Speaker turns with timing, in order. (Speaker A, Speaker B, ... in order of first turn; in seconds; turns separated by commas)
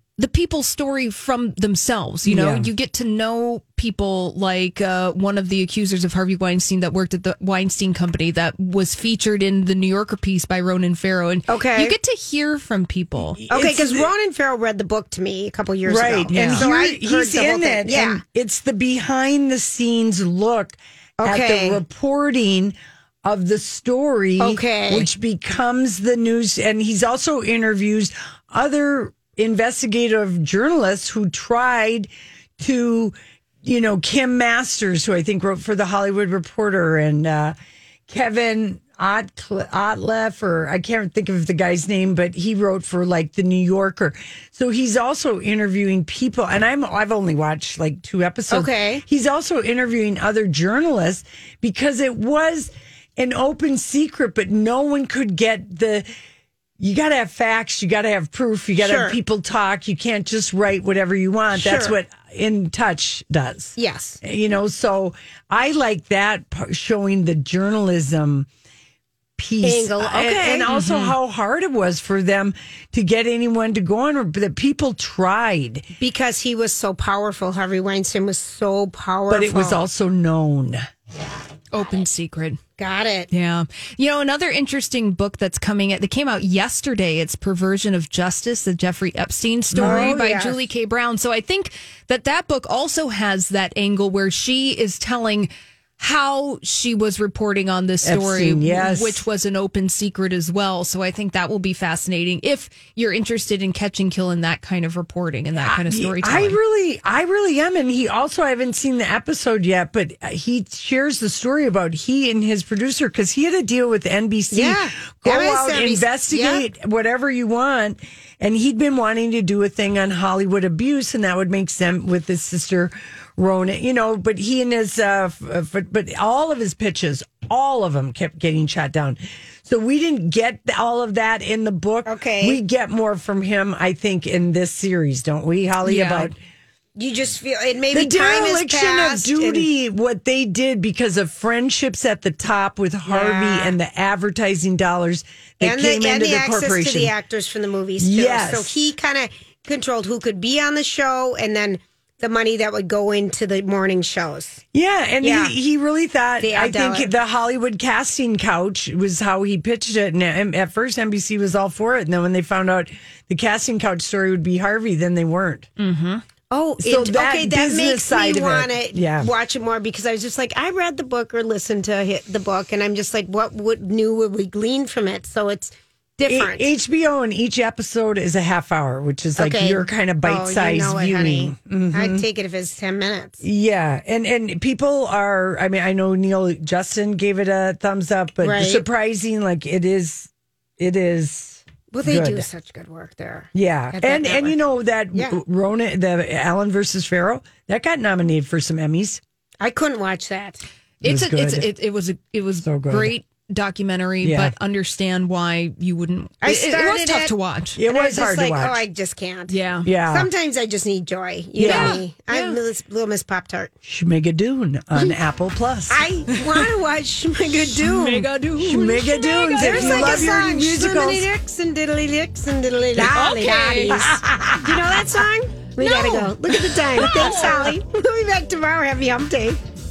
Speaker A: 0.2-13.4, Speaker B: 2.2-2.7, Speaker C: 11.5-11.9, Speaker B: 13.3-14.1, Speaker C: 13.5-18.2, Speaker B: 15.8-37.5, Speaker A: 16.3-16.6, Speaker C: 21.2-21.8, Speaker C: 24.4-25.1, Speaker B: 38.1-56.1, Speaker C: 48.5-49.0, Speaker B: 56.8-68.5, Speaker C: 58.8-59.1, Speaker C: 61.5-61.9, Speaker C: 63.8-64.2, Speaker B: 69.4-75.9, Speaker C: 69.6-70.7, Speaker A: 70.7-71.1, Speaker C: 76.0-79.8, Speaker B: 79.3-80.8, Speaker A: 81.7-82.6, Speaker C: 82.8-83.3, Speaker A: 83.3-106.6, Speaker B: 89.7-90.3, Speaker C: 89.8-90.6, Speaker B: 98.0-99.2, Speaker B: 105.6-136.4, Speaker C: 114.5-116.6, Speaker C: 132.1-132.6, Speaker A: 135.8-136.3, Speaker C: 136.9-139.7, Speaker B: 137.9-147.1, Speaker C: 143.1-143.7, Speaker C: 145.6-154.6, Speaker B: 148.0-148.8, Speaker B: 154.7-165.7, Speaker C: 155.2-155.5, Speaker C: 156.4-157.1, Speaker A: 165.8-166.2, Speaker C: 166.5-176.7, Speaker B: 166.8-169.3, Speaker B: 176.3-182.2, Speaker C: 179.4-183.4, Speaker B: 183.4-192.5, Speaker C: 188.4-188.8, Speaker C: 191.9-194.6, Speaker B: 193.5-199.2, Speaker C: 199.6-200.6, Speaker A: 201.0-207.8, Speaker B: 201.0-201.7, Speaker B: 202.6-203.1, Speaker B: 204.2-204.5, Speaker C: 206.4-207.3, Speaker B: 207.8-208.8, Speaker C: 207.8-209.6, Speaker A: 209.5-209.9, Speaker B: 209.8-210.3, Speaker C: 210.1-213.7, Speaker B: 211.6-212.0, Speaker A: 211.6-212.6, Speaker B: 213.8-216.0, Speaker C: 215.9-218.3, Speaker A: 217.7-220.4, Speaker B: 218.6-221.3, Speaker C: 219.5-229.6, Speaker A: 222.9-224.1, Speaker B: 223.9-225.0, Speaker A: 225.8-226.3, Speaker A: 226.9-227.7, Speaker B: 227.0-227.7